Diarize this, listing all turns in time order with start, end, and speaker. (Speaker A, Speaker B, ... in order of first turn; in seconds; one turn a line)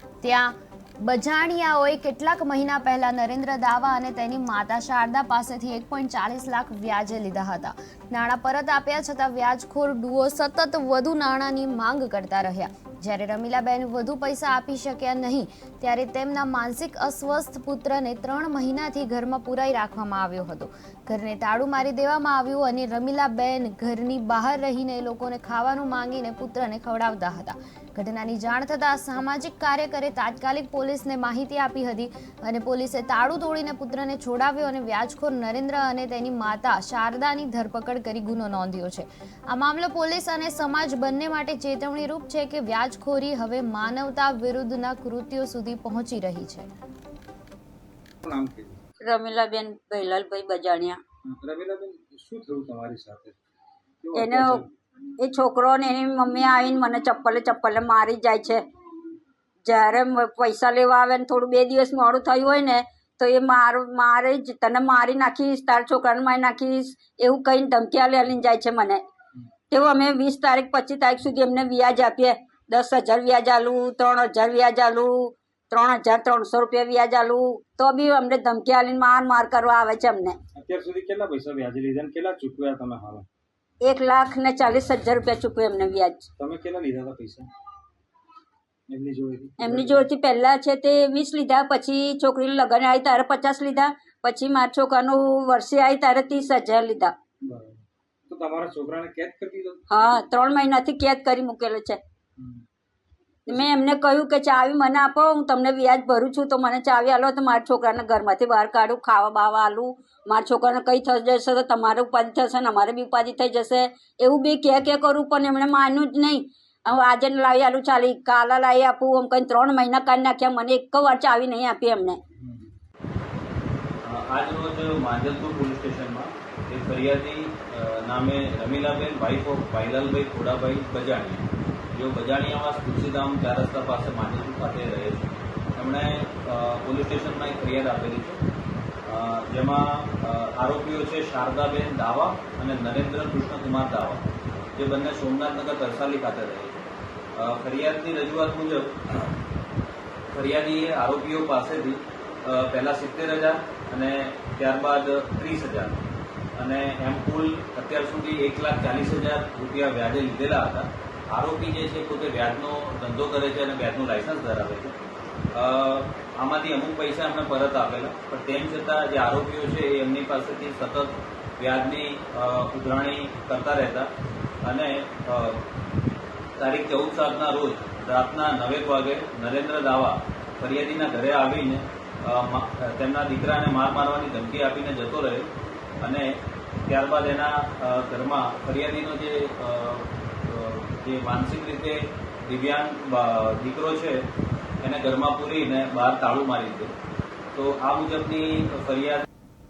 Speaker A: 0.2-46.7
Speaker B: 48.2-48.8
Speaker C: 49.0-51.0
Speaker B: 51.2-53.4
Speaker B: 54.0-54.6
Speaker C: 54.1-54.6
Speaker C: 55.2-58.6
Speaker C: 59.6-69.0
Speaker C: 69.7-80.4
Speaker B: 80.5-83.2
Speaker C: 83.8-86.3
Speaker B: 86.4-87.5
Speaker B: 88.9-90.1
Speaker C: 89.6-97.1
Speaker B: 97.4-99.8
Speaker C: 99.9-102.0
Speaker B: 102.4-102.6
Speaker C: 103.5-122.2
Speaker D: 124.0-138.4
Speaker D: 139.1-146.8
Speaker D: 147.3-149.3
Speaker D: 150.3-156.0
Speaker D: 156.6-164.9
Speaker D: 165.5-174.1
Speaker D: 174.6-175.6
Speaker D: 176.6-185.5
Speaker D: 186.0-194.2
Speaker D: 194.8-196.9
Speaker D: 197.5-199.2